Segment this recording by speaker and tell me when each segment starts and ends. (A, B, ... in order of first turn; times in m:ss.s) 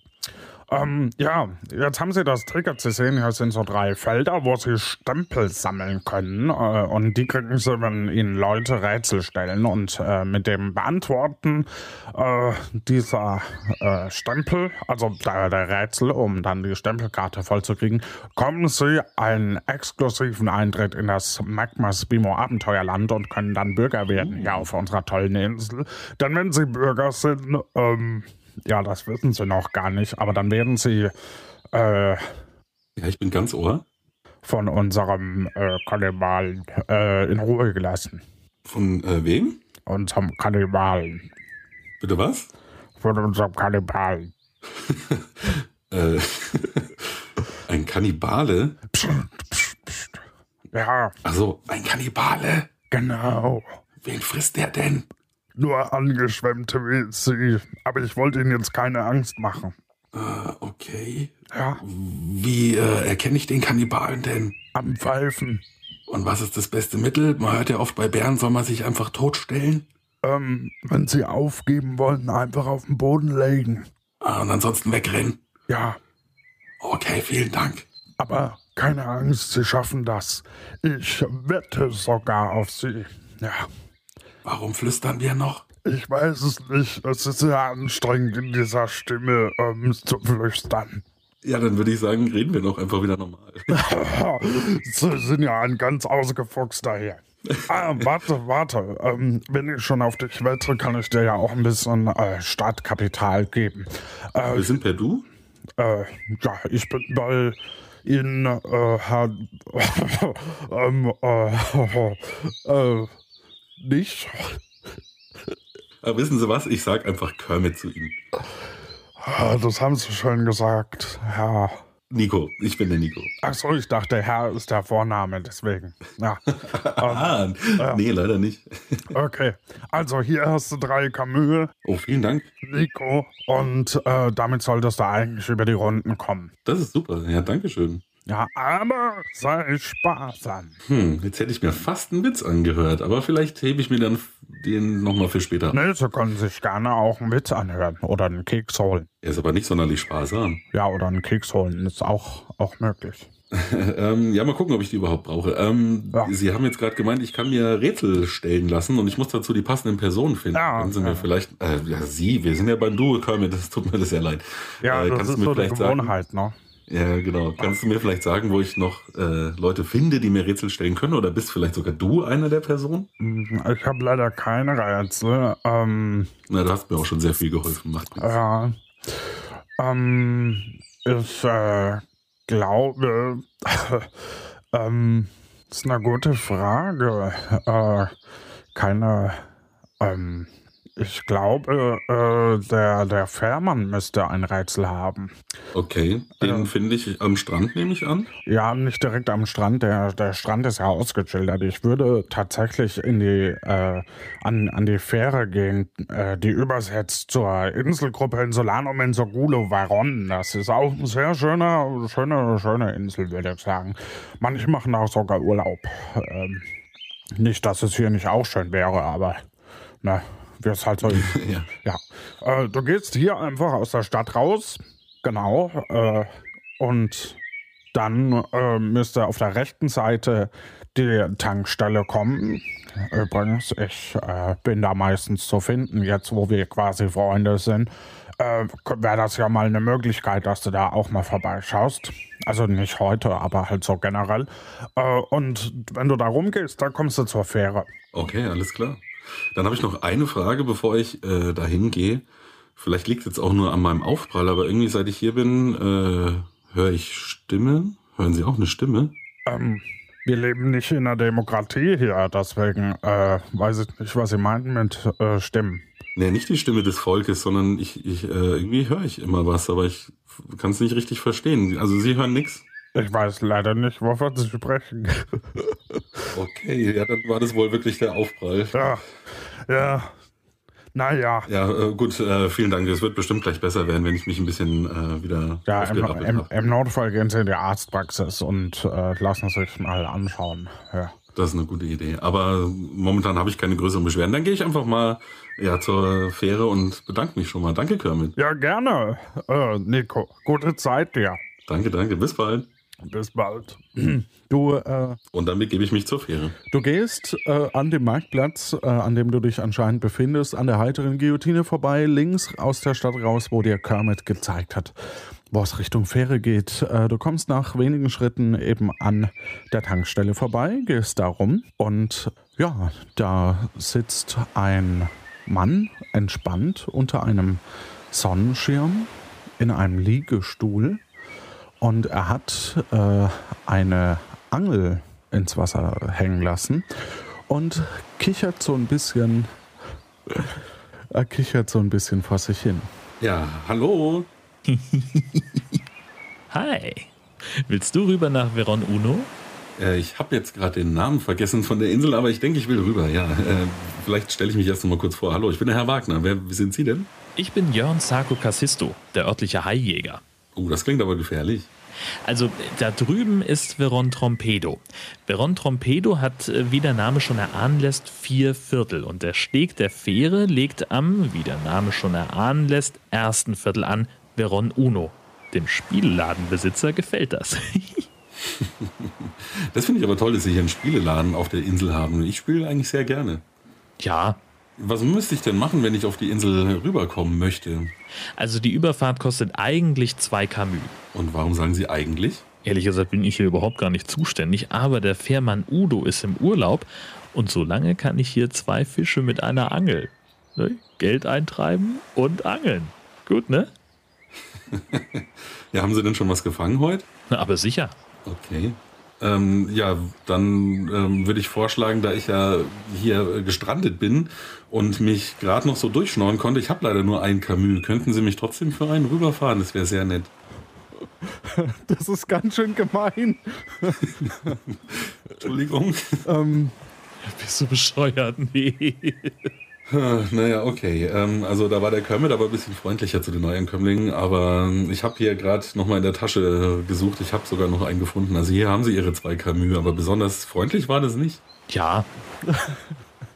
0:00.7-0:31.1 A
0:24.1-0:24.7 B
0:31.7-0:32.3 A
0:33.0-0:33.8 B
0:34.4-0:38.2 A
0:38.6-0:39.6 B
0:39.8-0:41.3 A
0:42.0-0:42.5 B
0:43.0-0:44.3 A
0:44.8-0:47.1 B
0:47.7-0:48.8 B
0:48.9-0:50.2 A
0:50.7-0:51.2 A
0:51.2-0:52.7 B
0:52.9-0:53.8 A
0:54.0-0:55.0 B
0:55.6-0:59.7 A
1:00.1-1:04.5 B
1:01.5-1:01.8 A
1:04.7-1:05.6 A
1:06.1-1:09.8 B
1:10.2-1:13.9 A
1:14.2-1:15.4 B
1:15.7-1:16.0 A
1:16.8-1:17.9 B
1:18.2-1:23.7 A
1:24.4-1:25.6 B
1:25.8-1:31.0 A
1:31.4-1:33.7 B
1:33.7-1:44.8 A
1:44.5-1:45.2 B
1:45.8-1:53.1 A
1:53.8-1:54.6 A
1:56.0-1:58.2 B
1:59.2-2:01.8 A
2:02.1-2:03.3 B
2:03.4-2:06.4 A
2:06.6-2:09.1 B
2:07.0-2:08.0 A
2:09.1-2:11.7 A
2:11.8-2:12.5 B
2:12.6-2:16.5 A
2:16.6-2:18.0 B
2:18.3-2:20.8 A
2:20.8-2:25.8 B
2:25.7-2:29.1 A
2:29.2-2:30.6 B
2:30.7-2:33.3 A
2:33.5-2:46.1 B
2:40.5-2:41.3 A
2:44.8-2:46.5 A
2:46.9-2:53.1 B
2:53.2-2:56.3 A
2:56.5-2:58.3 B
2:58.2-3:04.1 A
3:04.7-3:08.1 A
3:08.7-3:09.4 A
3:10.0-3:15.3 A
3:15.7-3:18.3 B
3:16.4-3:16.7 A
3:18.5-3:36.6 A
3:37.4-3:39.4 A
3:40.0-3:47.4 A
3:41.1-3:41.7 B
3:47.9-4:07.9 A
4:08.1-4:12.2 B
4:12.8-4:19.1 B
4:19.4-4:25.8 A
4:26.2-4:32.6 B
4:32.9-4:35.7 A
4:36.3-4:38.9 B
4:38.7-4:39.0 A
4:39.6-4:40.1 A
4:40.9-4:41.5 A
4:41.4-4:46.5 B
4:45.7-4:51.2 A
4:51.3-4:58.3 B
4:58.4-5:01.4 A
5:01.7-5:02.7 B
5:03.0-5:04.2 A
5:04.4-5:05.2 C
5:05.3-5:06.6 B
5:06.7-5:14.9 C
5:15.5-5:31.0 C
5:31.8-5:36.9 C
5:37.5-5:39.5 C
5:40.3-5:40.6 C
5:41.1-5:42.9 C
5:43.2-5:44.3 B
5:44.8-5:45.4 D
5:46.5-5:49.3 D
5:49.8-5:57.1 B
5:57.4-6:00.2 D
6:00.5-6:01.7 B
6:02.2-6:18.0 D
6:18.5-6:23.4 B
6:24.0-6:24.4 D
6:24.8-6:27.9 B
6:28.4-6:31.0 D
6:31.1-6:32.4 B
6:32.6-6:43.7 D
6:44.7-6:47.0 B
6:47.3-6:47.9 D
6:48.2-7:00.3 B
7:01.4-7:04.6 C
7:04.2-7:06.2 B
7:06.2-7:06.8 C
7:07.2-7:09.5 D
7:09.9-7:21.4 B
7:21.7-7:22.1 D
7:22.5-7:22.8 C